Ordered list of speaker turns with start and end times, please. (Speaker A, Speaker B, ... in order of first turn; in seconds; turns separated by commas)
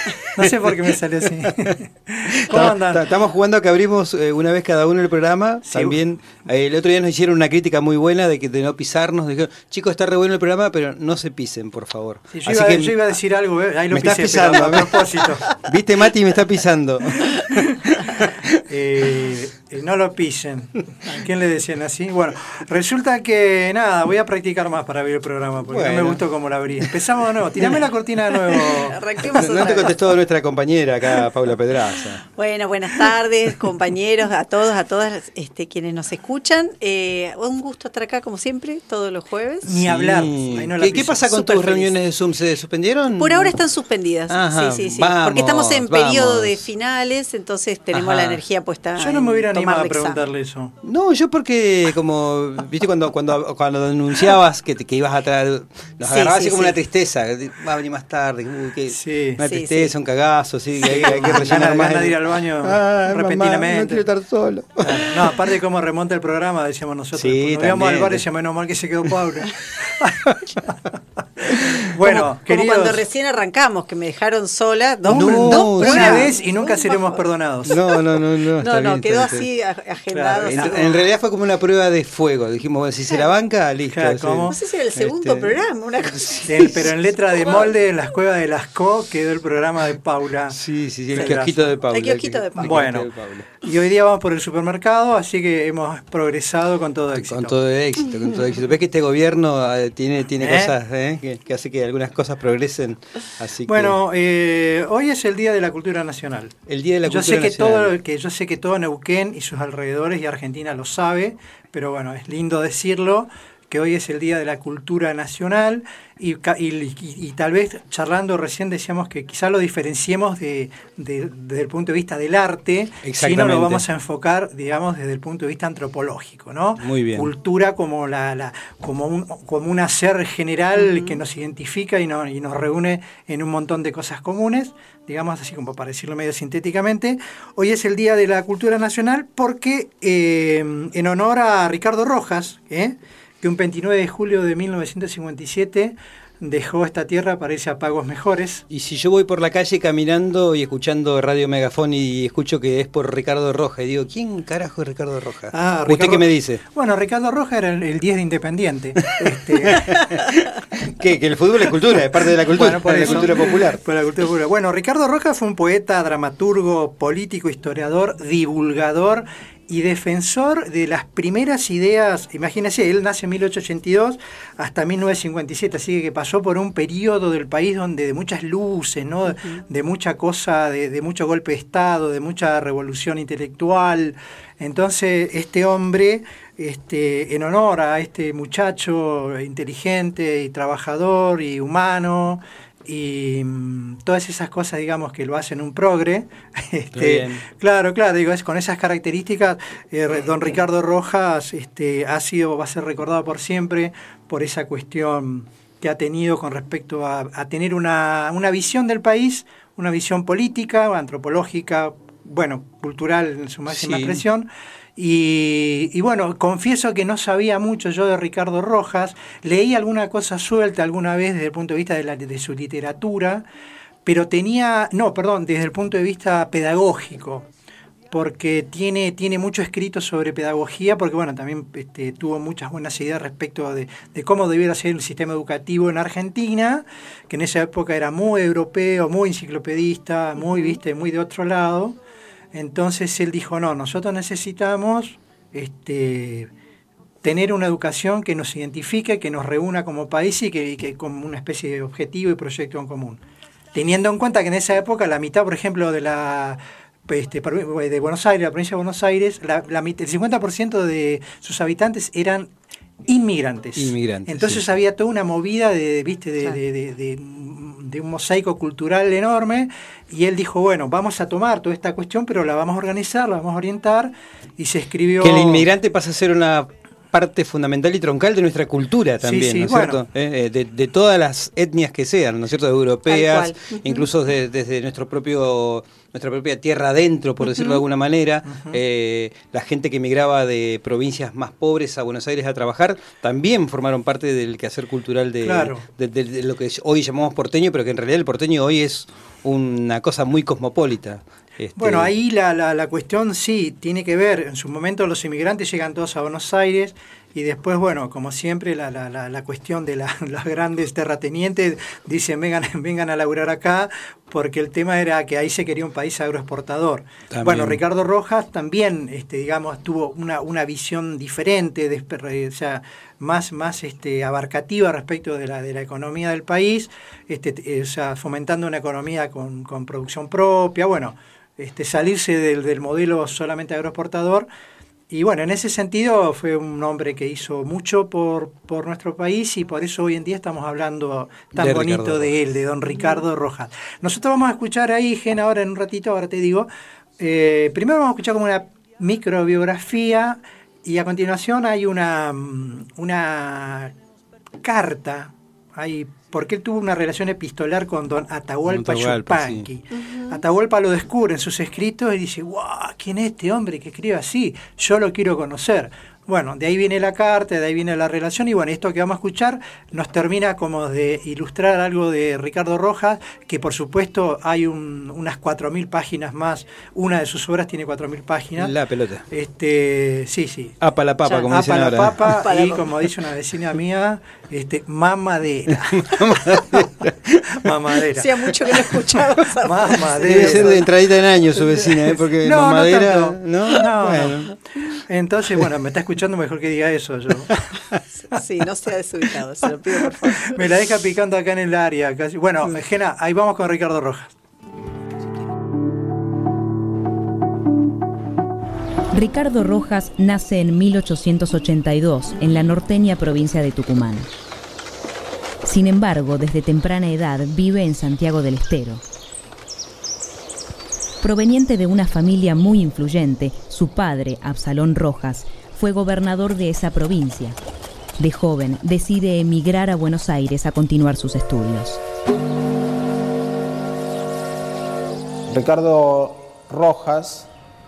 Speaker A: 0.3-3.1, Speaker B: 0.4-1.3, Speaker B: 2.5-13.2, Speaker A: 5.7-6.0, Speaker A: 12.3-15.4, Speaker B: 13.9-19.1, Speaker A: 18.7-29.5, Speaker B: 25.6-28.7, Speaker C: 27.6-27.8, Speaker C: 28.7-30.0, Speaker B: 29.2-32.2, Speaker C: 32.3-39.7, Speaker A: 39.6-42.0, Speaker B: 39.7-43.7, Speaker C: 41.3-41.6, Speaker C: 43.1-50.2, Speaker B: 44.3-46.7, Speaker B: 47.9-48.5, Speaker A: 49.0-50.7, Speaker B: 50.8-65.6, Speaker C: 56.0-56.8, Speaker A: 58.9-59.5, Speaker C: 59.4-60.0, Speaker A: 60.8-64.0, Speaker A: 64.8-70.2, Speaker B: 67.1-68.3, Speaker B: 69.1-69.7, Speaker B: 71.5-72.2, Speaker A: 71.8-73.1, Speaker C: 72.0-77.9, Speaker B: 75.1-76.3, Speaker A: 75.1-77.8, Speaker B: 77.6-79.5, Speaker C: 78.6-81.0, Speaker A: 80.1-81.0, Speaker B: 80.4-87.0, Speaker A: 83.9-84.6, Speaker C: 84.5-86.9, Speaker A: 86.4-90.6, Speaker C: 87.4-87.7, Speaker B: 90.5-93.5, Speaker A: 91.1-91.8, Speaker C: 91.9-93.0, Speaker A: 92.7-93.1, Speaker A: 93.6-97.6, Speaker B: 97.1-104.0, Speaker A: 100.4-100.8, Speaker A: 103.6-148.6, Speaker B: 106.7-108.0, Speaker B: 123.0-123.9, Speaker B: 126.8-127.3, Speaker B: 148.7-156.6, Speaker A: 155.5-160.0, Speaker B: 159.0-163.8, Speaker A: 162.5-223.5, Speaker B: 196.9-197.4, Speaker B: 213.7-214.2, Speaker A: 224.1-227.5, Speaker A: 228.1-241.9, Speaker A: 242.5-246.5, Speaker A: 247.2-253.2, Speaker A: 253.7-262.5, Speaker A: 263.1-275.7, Speaker B: 263.8-264.7, Speaker B: 275.2-302.1, Speaker A: 279.2-280.1, Speaker C: 283.1-284.1, Speaker C: 287.4-287.8, Speaker A: 288.4-288.8, Speaker A: 295.4-295.9, Speaker A: 301.8-334.5, Speaker B: 317.3-317.8, Speaker A: 335.1-353.9, Speaker B: 341.5-342.4, Speaker A: 354.6-378.8, Speaker B: 358.6-359.7, Speaker B: 378.6-379.2, Speaker A: 379.3-380.7, Speaker B: 380.8-382.4, Speaker C: 381.2-381.5, Speaker A: 381.5-386.6, Speaker C: 382.2-383.0, Speaker B: 385.7-388.1, Speaker A: 387.6-388.8, Speaker C: 388.2-390.8, Speaker A: 389.6-390.7, Speaker B: 390.0-394.5, Speaker A: 391.6-394.5, Speaker A: 395.1-397.5, Speaker C: 398.1-400.6, Speaker A: 400.4-404.3, Speaker D: 409.1-414.3, Speaker D: 415.6-419.0, Speaker D: 421.2-427.6, Speaker D: 428.2-432.0, Speaker E: 435.5-437.5